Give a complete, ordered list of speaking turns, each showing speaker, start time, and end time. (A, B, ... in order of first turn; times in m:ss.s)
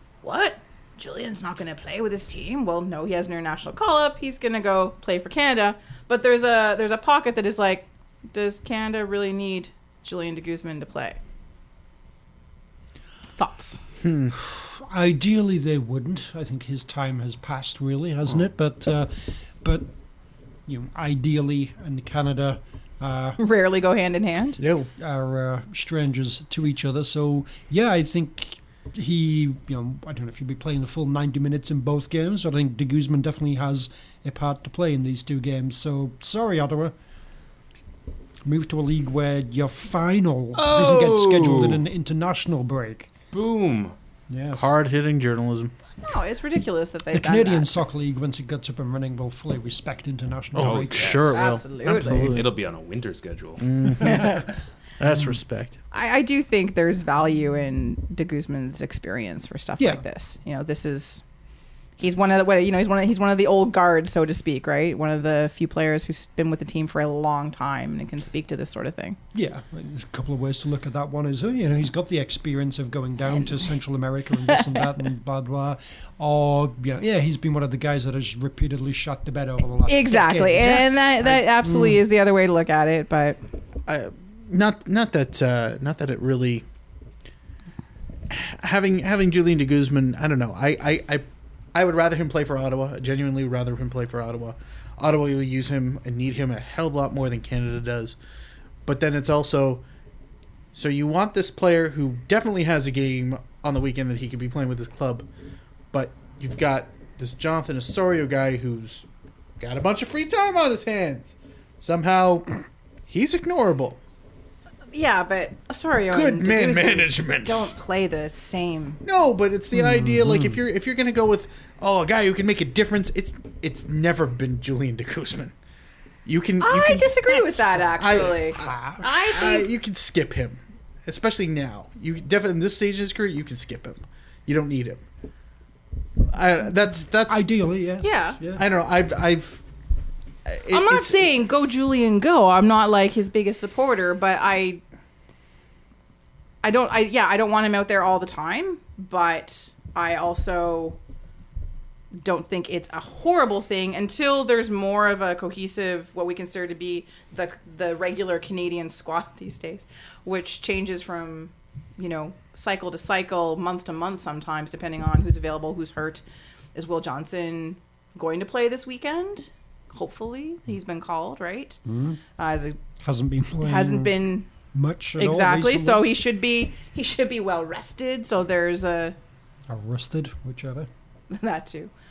0:00.2-0:11.2 A
0:13.4-0:13.8 A
0:14.0-0:14.3 B
0:14.3-0:19.9 C
0:20.6-0:23.4 C
0:23.4-0:24.6 A
0:24.6-0:24.9 B
0:25.0-0:36.9 C
0:38.4-0:43.1 C
0:40.5-0:41.8 D
0:43.3-0:43.9 D
0:44.3-0:44.8 C
0:44.5-0:45.7 B
0:46.0-0:47.8 A
0:47.1-0:51.3 C
0:50.5-0:52.5 B
0:50.6-0:53.6 D
0:51.3-0:52.3 A
0:53.6-0:54.4 B
0:54.0-0:54.5 C
0:55.0-0:55.8 B
0:55.9-1:01.2 A
1:02.0-1:09.2 A
1:09.3-1:22.0 C
1:14.4-1:14.8 A
1:19.9-1:23.4 A
1:23.9-1:26.6 B
1:28.3-1:38.2 B
1:38.8-1:39.8 B
1:40.7-1:45.3 B
1:45.9-1:49.1 B
1:49.6-1:52.5 B
1:53.1-1:54.0 B
1:54.9-1:59.0 A
1:56.1-1:57.7 B
1:59.0-2:05.5 B
1:59.7-2:00.6 C
2:06.2-2:15.0 B
2:06.6-2:09.7 A
2:08.3-2:09.0 C
2:16.3-2:17.5 B
2:17.2-2:18.6 C
2:18.0-2:18.4 A
2:18.5-2:19.6 B
2:20.5-2:21.3 B
2:20.7-2:24.8 A
2:26.6-2:31.0 A
2:32.1-2:46.2 A
2:46.7-2:51.8 A
2:51.8-2:52.2 C
2:52.4-2:52.8 A
2:53.0-2:56.1 C
2:53.6-2:54.5 A
2:55.2-2:59.2 A
2:59.7-3:00.9 C
3:01.3-3:01.9 A